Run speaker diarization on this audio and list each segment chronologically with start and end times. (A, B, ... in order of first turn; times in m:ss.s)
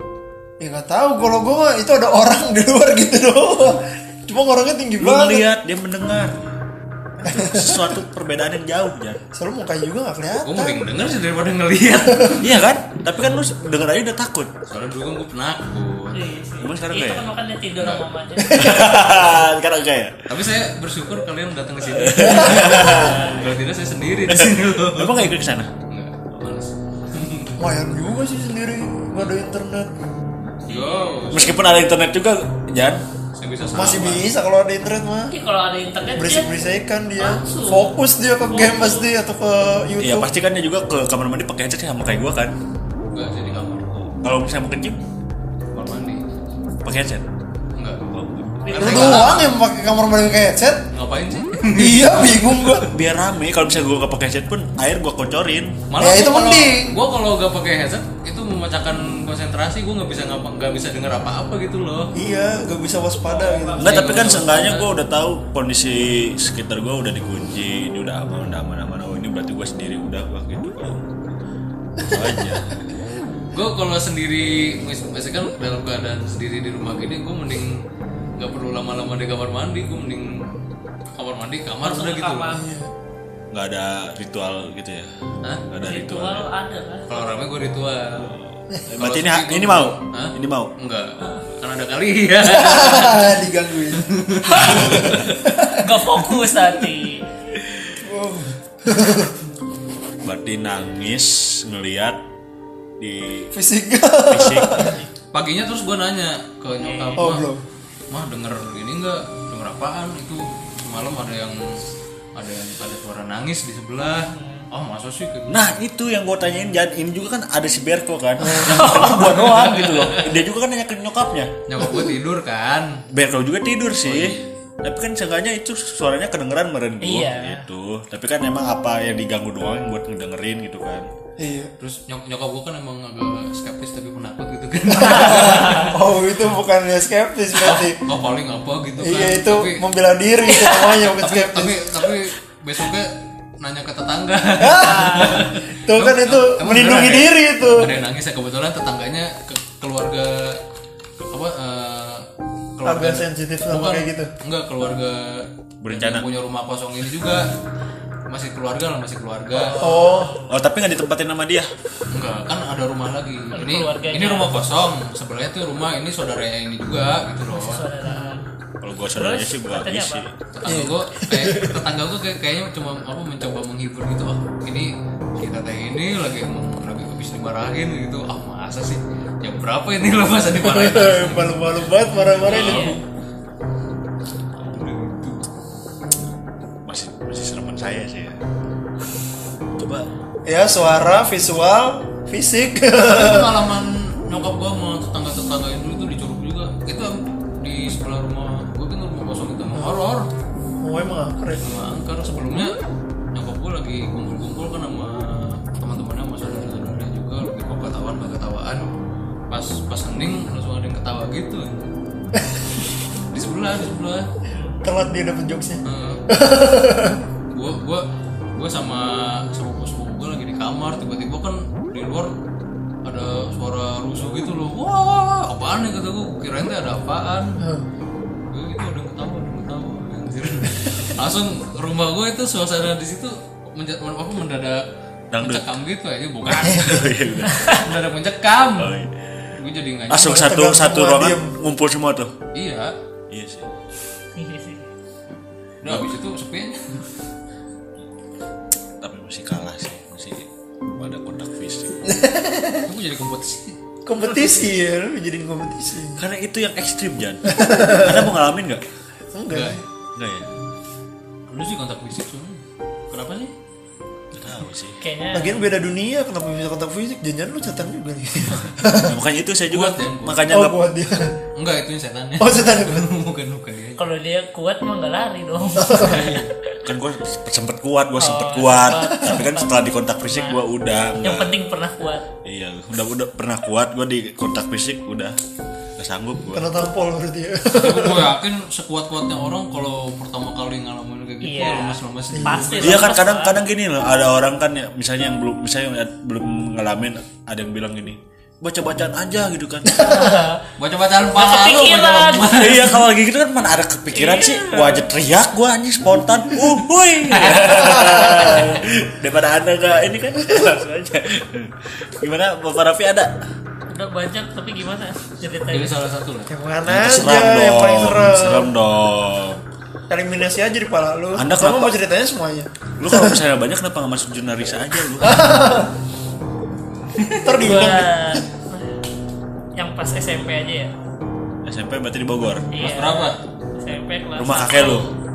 0:00.6-0:05.4 A
0:05.0-0:06.4 B
0:07.2-0:08.0 A
0:07.2-0:09.2 B
0:09.4-0:10.8 A
0:10.4-0:12.5 C
0:12.4-0:14.5 B
0:14.7-0:16.2 C
0:16.1-0:18.9 D
0:16.6-0:18.0 B
0:18.4-0:19.0 A
0:18.6-0:20.2 B
0:20.3-0:25.3 C
0:21.8-0:23.5 B
0:22.2-0:22.9 A
0:23.0-0:23.3 D
0:24.3-0:25.7 B
0:25.9-0:27.5 C
0:27.6-0:29.9 A
0:30.6-0:31.6 C
0:30.6-0:31.3 D
0:31.3-0:33.0 B
0:33.4-0:34.3 C
0:33.7-0:35.3 A
0:35.3-0:36.5 D
0:36.2-0:40.3 A
0:37.2-0:39.1 D
0:40.0-0:42.5 B
0:43.1-0:43.9 C
0:44.1-0:45.0 B
0:45.7-0:46.2 C
0:46.8-0:47.3 B
0:47.8-0:48.1 C
0:48.1-0:49.0 B
0:48.6-0:49.5 D
0:48.7-0:49.6 C
0:48.8-0:50.8 A
0:50.9-0:52.8 C
0:51.8-0:52.9 A
0:52.8-0:55.8 B
0:55.9-1:02.1 C
0:56.0-0:56.8 A
1:02.2-1:04.2 A
1:03.2-1:04.8 D
1:03.7-1:04.9 C
1:03.8-1:11.2 B
1:12.0-1:12.8 B
1:13.5-1:17.8 C
1:18.4-1:20.5 C
1:21.1-1:22.6 C
1:21.8-1:22.7 D
1:22.5-1:22.9 A
1:23.5-1:25.1 B
1:25.7-1:26.5 B
1:25.8-1:27.3 D
1:27.1-1:28.3 C
1:28.3-1:30.7 B
1:29.0-1:35.3 C
1:32.4-1:36.2 A
1:34.5-1:35.0 D
1:35.7-1:37.2 D
1:38.0-1:39.3 A
1:40.2-1:42.2 B
1:43.0-1:43.5 B
1:43.5-1:45.0 A
1:44.3-1:44.9 B
1:45.3-1:47.5 C
1:46.8-1:47.3 D
1:47.2-1:47.6 A
1:48.1-1:51.8 C
1:52.4-1:55.7 C
1:54.2-1:54.7 D
1:55.5-2:01.5 B
1:58.4-1:58.8 A
1:58.7-2:00.4 C
1:58.8-1:59.4 D
2:01.7-2:03.0 C
2:01.8-2:02.1 A
2:03.1-2:11.1 B
2:04.0-2:04.5 C
2:07.0-2:07.6 D
2:11.4-2:11.7 A
2:11.8-2:15.9 C
2:14.9-2:18.0 A
2:15.0-2:15.9 D
2:17.6-2:19.8 C
2:19.0-2:21.9 A
2:20.5-2:20.9 D
2:21.0-2:30.6 C
2:24.6-2:27.9 A
2:31.3-2:37.5 C
2:32.8-2:34.3 A
2:35.8-2:36.3 B
2:38.3-2:39.8 C
2:39.5-2:40.5 D
2:39.8-2:40.3 A
2:40.5-2:41.7 B
2:42.1-2:47.8 C
2:43.5-2:44.5 D
2:47.5-2:48.4 D
2:48.0-2:48.3 A
2:48.8-2:50.3 B
2:49.2-2:50.2 D
2:50.5-3:01.7 C
2:50.6-2:51.8 A
3:00.6-3:03.0 A
3:02.3-3:03.0 C
3:02.4-3:03.0 D
3:04.6-3:05.5 C
3:06.8-3:08.4 B
3:09.8-3:10.1 B
3:10.4-3:13.6 A
3:13.0-3:20.3 C
3:20.8-3:21.6 A
3:21.6-3:22.8 C
3:23.3-3:28.9 C
3:29.5-3:31.9 C
3:33.3-3:34.3 C
3:34.5-3:34.8 D
3:34.8-3:37.2 A
3:35.8-3:36.2 C
3:37.5-3:42.3 C
3:43.0-3:47.6 C
3:47.6-3:47.8 A
3:48.5-3:54.8 C
3:55.3-3:55.8 B
3:55.4-3:57.2 C
3:56.4-3:57.7 B
3:57.5-3:57.8 D
3:57.7-3:59.0 C
3:58.8-3:59.1 B
3:59.6-4:00.5 C
4:00.1-4:02.3 B
4:00.2-4:01.5 A
4:02.5-4:02.9 C
4:03.3-4:03.7 B
4:04.4-4:04.8 D
4:05.3-4:07.0 C
4:05.8-4:06.1 B
4:09.0-4:12.0 B
4:12.1-4:12.8 A
4:12.8-4:13.8 C
4:14.0-4:16.2 A
4:16.2-4:18.8 B
4:17.4-4:18.3 A
4:19.3-4:19.8 A
4:19.5-4:19.8 C
4:20.2-4:20.5 B
4:21.5-4:23.5 C
4:24.3-4:25.0 B
4:25.0-4:25.6 D
4:25.3-4:29.2 A
4:29.0-4:30.8 B
4:29.7-4:30.4 C
4:30.5-4:31.3 A
4:31.6-4:34.0 C
4:32.4-4:33.0 A
4:34.0-4:36.4 D
4:35.8-4:36.4 A
4:36.0-4:36.5 C
4:36.8-4:41.5 B
4:38.2-4:40.6 D
4:41.2-4:42.2 D
4:42.4-4:45.4 B
4:46.0-4:46.8 B
4:46.5-4:48.3 A
4:47.7-4:53.1 C
4:51.4-4:53.6 D
4:52.3-4:52.8 A
4:52.8-5:00.0 B
4:59.9-5:00.4 A
4:59.9-5:00.6 D
5:00.8-5:03.0 C
5:01.3-5:02.6 D
5:02.5-5:13.3 B
5:04.1-5:05.0 D
5:07.7-5:08.6 A
5:13.9-5:15.9 D
5:15.7-5:16.5 C
5:16.5-5:18.7 A
5:16.8-5:19.6 B
5:20.1-5:23.4 A
5:21.3-5:21.9 B
5:23.0-5:25.6 B
5:25.2-5:25.9 A
5:27.2-5:27.5 C
5:27.4-5:28.4 A
5:27.6-5:29.0 D
5:29.8-5:30.9 D
5:31.6-5:32.7 B
5:32.7-5:35.1 D
5:32.7-5:33.4 C
5:34.4-5:35.1 B